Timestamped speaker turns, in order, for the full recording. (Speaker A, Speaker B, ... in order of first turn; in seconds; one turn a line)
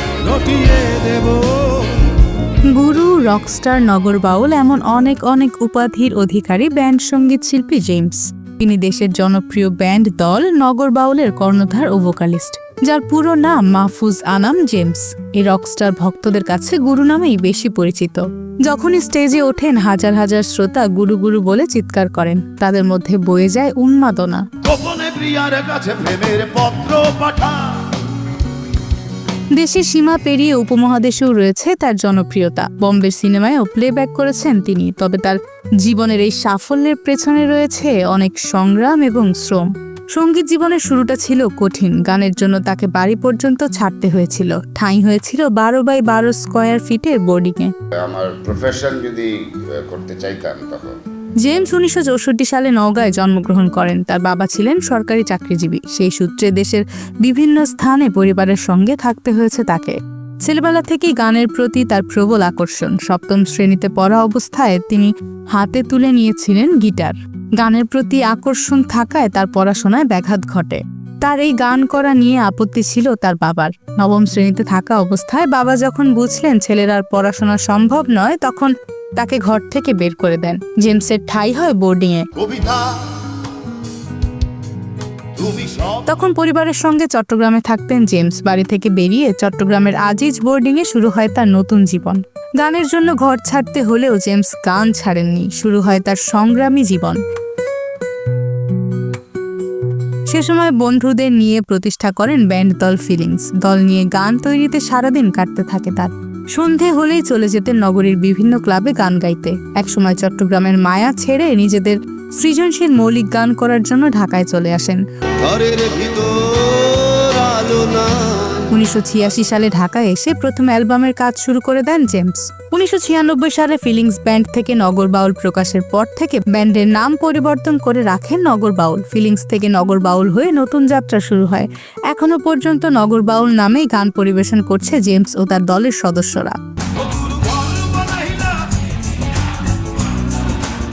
Speaker A: 0.2-2.1
Speaker B: 2.7-24.4
Speaker A: 24.6-27.9
Speaker B: 29.5-47.7
Speaker C: 48.0-51.0
Speaker A: 48.4-49.0
Speaker B: 51.4-82.3
Speaker A: 82.3-83.0
Speaker A: 85.4-86.2
Speaker B: 86.1-97.2
Speaker B: 100.3-115.0
Speaker A: 115.4-118.7
Speaker B: 118.7-136.6
Speaker A: 137.0-138.7